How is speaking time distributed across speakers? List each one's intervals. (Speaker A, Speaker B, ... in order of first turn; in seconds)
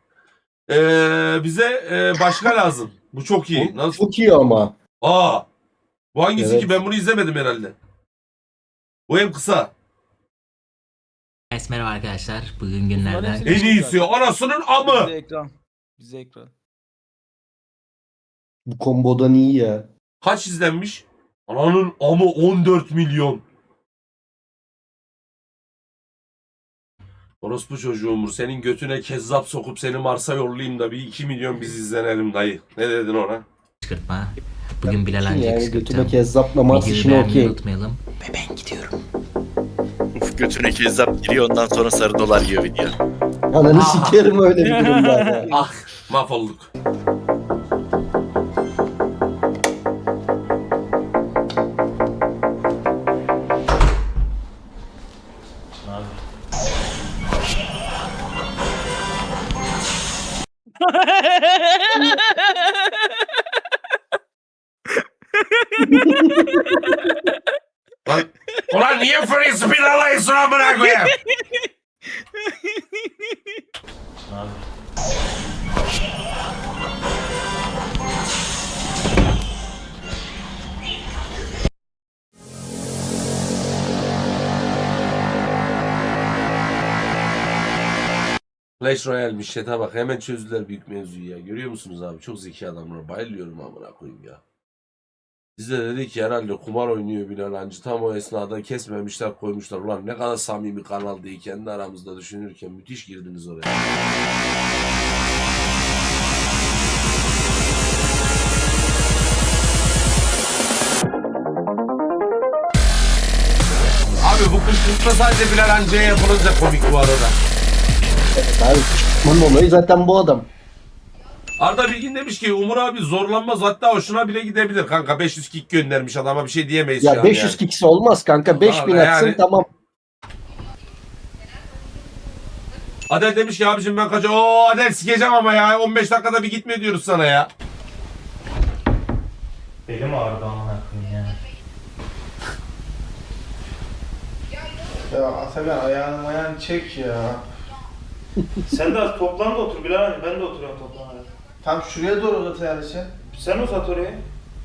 Speaker A: 0.7-4.0, 5.0-5.5, 6.1-7.8, 9.1-9.7, 13.5-15.1, 20.2-23.4, 27.4-33.5, 43.7-44.3, 45.5-46.7, 68.1-71.2, 88.8-94.4, 95.6-103.7, 114.2-117.4, 121.6-127.6, 128.5-129.4, 133.1-137.5
Speaker B: 3.5-4.8, 6.4-6.7, 18.7-19.9, 34.9-37.6, 43.5-45.5, 118.4-120.5, 127.0-129.7, 148.4-148.6
Speaker C: 11.5-13.6, 33.8-39.0
Speaker D: 13.0-16.5, 44.6-45.4, 62.0-62.5
Speaker E: 40.2-42.9
Speaker F: 55.8-56.2, 74.2-74.6, 139.9-141.4, 148.7-151.3, 153.3-154.2
Speaker G: 145.1-147.5, 151.6-153.1